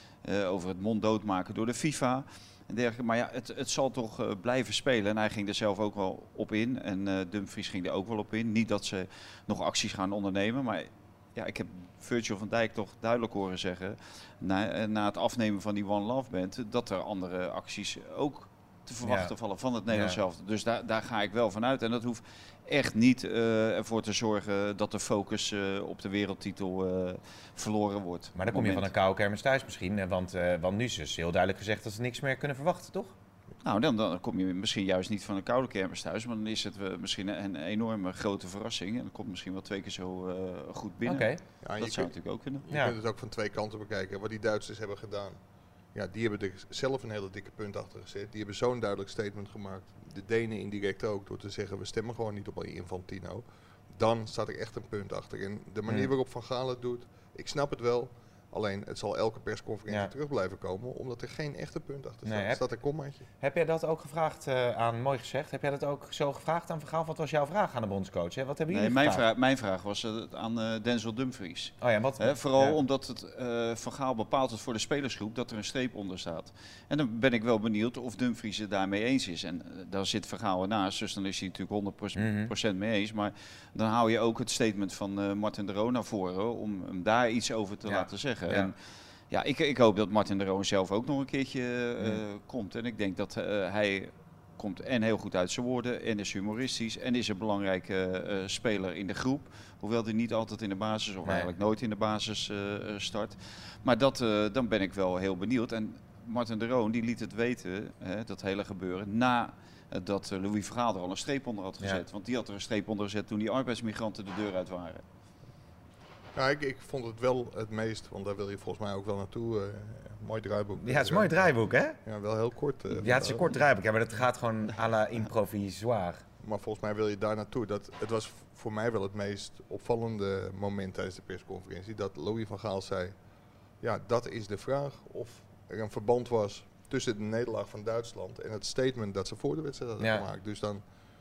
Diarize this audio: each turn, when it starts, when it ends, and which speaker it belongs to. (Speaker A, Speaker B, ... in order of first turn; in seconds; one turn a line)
Speaker A: 0.2-28.9
Speaker B: 19.0-19.3
Speaker B: 19.9-20.2
Speaker B: 28.4-33.1
Speaker A: 33.6-42.6
Speaker B: 41.0-41.4
Speaker C: 41.6-45.4
Speaker B: 42.7-43.0
Speaker C: 45.9-63.3
Speaker B: 62.2-62.6
Speaker B: 63.4-69.2
Speaker A: 68.7-88.8
Speaker B: 71.8-72.8
Speaker B: 82.2-82.5
Speaker B: 87.9-88.7
Speaker A: 89.3-115.0
Speaker C: 116.3-121.5
Speaker B: 120.8-122.0
Speaker C: 122.0-123.5
Speaker B: 122.9-126.2
Speaker C: 126.4-133.1
Speaker C: 133.8-140.8
Speaker B: 140.0-140.3